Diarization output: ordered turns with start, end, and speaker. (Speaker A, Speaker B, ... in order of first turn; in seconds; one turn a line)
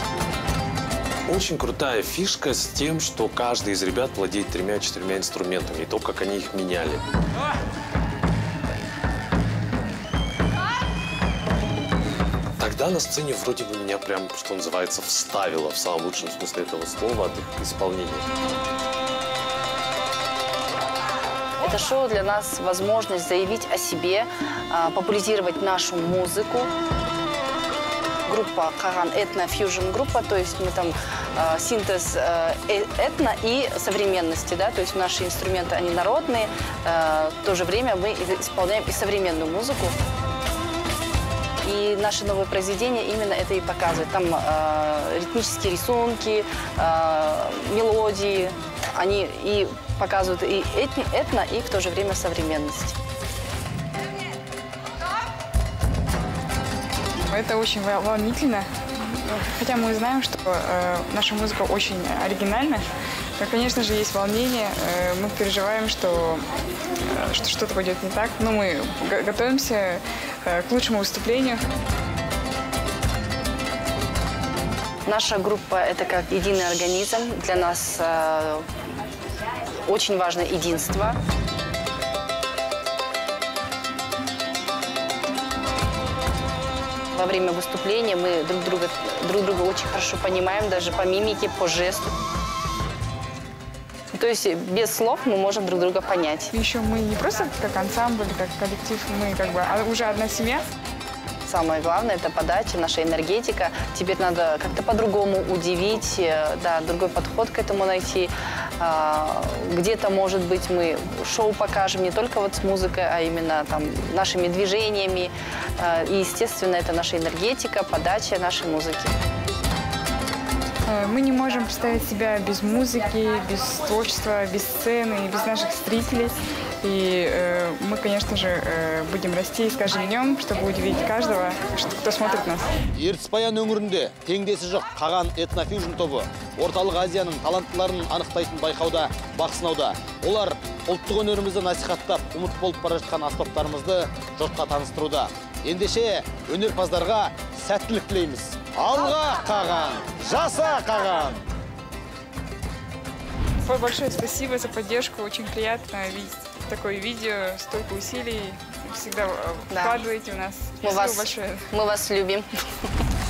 Speaker A: 1.3-7.0
Speaker A: 12.6-18.2
Speaker B: 21.6-26.7
Speaker B: 28.3-39.9
Speaker B: 41.6-53.0
Speaker C: 57.3-58.7
Speaker C: 59.2-62.8
Speaker C: 63.4-66.4
Speaker C: 67.0-71.6
Speaker B: 75.0-78.6
Speaker B: 79.8-81.2
Speaker B: 87.1-92.1
Speaker B: 94.1-96.5
Speaker C: 96.5-100.6
Speaker B: 101.4-119.1
Speaker C: 120.9-132.7
Speaker D: 132.9-151.4
Speaker C: 153.7-161.7
Speaker B: 159.7-160.0
Speaker B: 160.8-162.5